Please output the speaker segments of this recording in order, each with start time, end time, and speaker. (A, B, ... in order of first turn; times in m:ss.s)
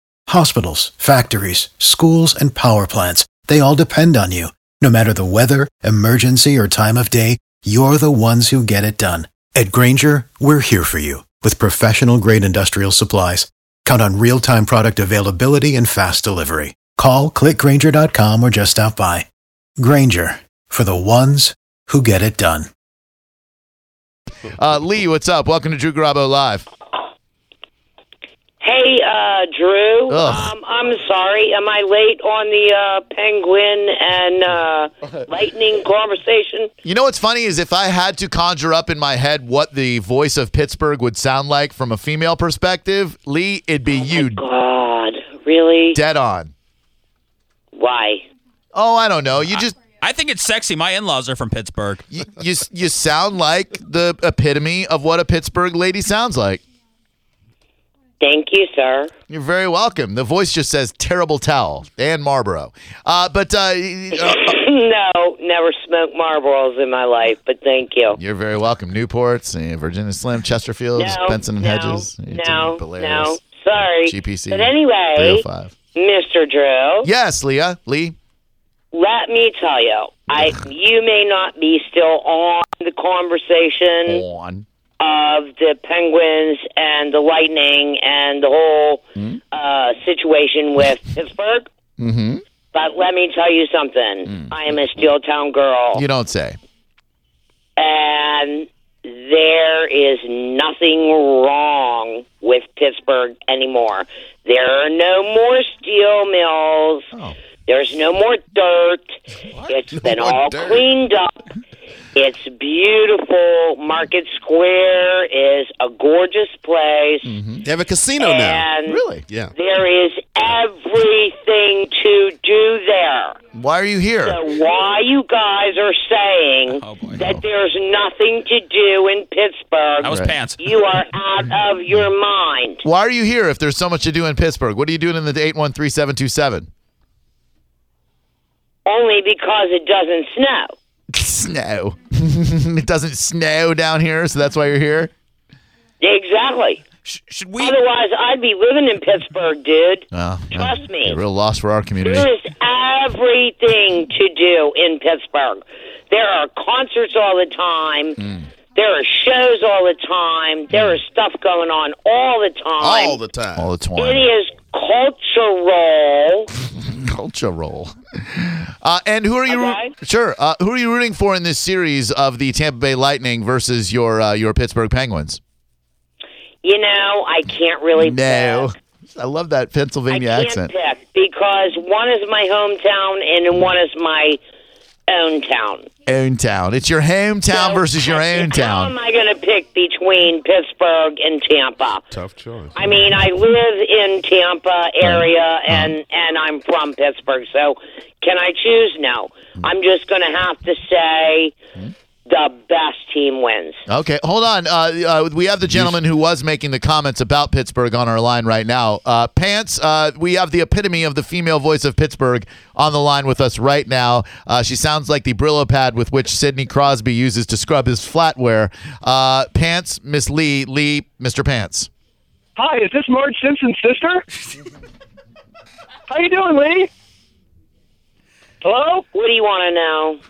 0:00.3-0:19.3 A
0:19.8-0:22.7 A
0:24.4-0:26.6 B
0:28.6-0:36.7 C
0:30.1-0:30.5 B
0:36.8-0:44.4 B
0:43.9-0:46.0 C
0:45.9-0:46.5 B
0:47.7-0:48.2 C
0:48.7-0:49.7 B
0:50.0-0:52.0 D
0:52.1-0:56.6 B
0:58.2-0:59.1 C
0:59.3-1:04.6 B
1:04.2-1:08.2 C
1:08.2-1:15.7 B
1:11.0-1:15.4 C
1:15.9-1:17.1 C
1:17.0-1:18.2 B
1:18.9-1:24.2 C
1:24.0-1:24.6 B
1:25.0-1:31.7 C
1:32.0-1:32.4 B
1:32.7-1:36.0 C
1:34.3-1:34.5 B
1:35.9-1:36.6 B
1:37.8-1:47.1 C
1:47.1-1:47.4 B
1:47.6-1:49.0 C
1:49.7-1:51.4 C
1:50.0-1:50.8 E
1:52.1-1:57.3 C
1:57.2-1:57.6 B
1:57.6-1:58.7 E
1:58.2-2:03.4 C
1:58.9-1:59.2 B
1:59.2-1:59.5 E
2:03.5-2:04.4 B
2:04.2-2:12.8 C
2:06.7-2:07.2 D
2:07.1-2:07.4 B
2:10.0-2:10.7 D
2:10.0-2:10.4 B
2:12.8-2:16.7 B
2:18.8-2:20.7 C
2:21.1-2:25.1 B
2:26.0-2:26.8 C
2:27.0-2:27.8 D
2:27.6-2:31.2 C
2:30.1-2:32.3 B
2:32.0-2:38.2 C
2:38.2-2:38.5 B
2:38.8-2:43.2 C
2:40.7-2:41.0 B
2:42.8-2:43.7 E
2:43.6-2:44.3 B
2:44.0-2:46.5 C
2:46.6-2:55.4 B
2:49.5-2:49.9 C
2:56.6-2:58.7 C
2:57.9-3:00.7 B
3:00.1-3:04.4 C
3:05.1-3:05.9 C
3:06.0-3:08.9 B
3:07.5-3:12.0 C
3:12.1-3:13.1 E
3:12.8-3:21.5 C
3:15.0-3:15.9 B
3:22.2-3:23.8 C
3:23.8-3:41.9 B
3:42.6-3:44.2 F
3:46.1-3:46.9 F
3:48.6-3:49.0 F
3:49.1-3:50.2 C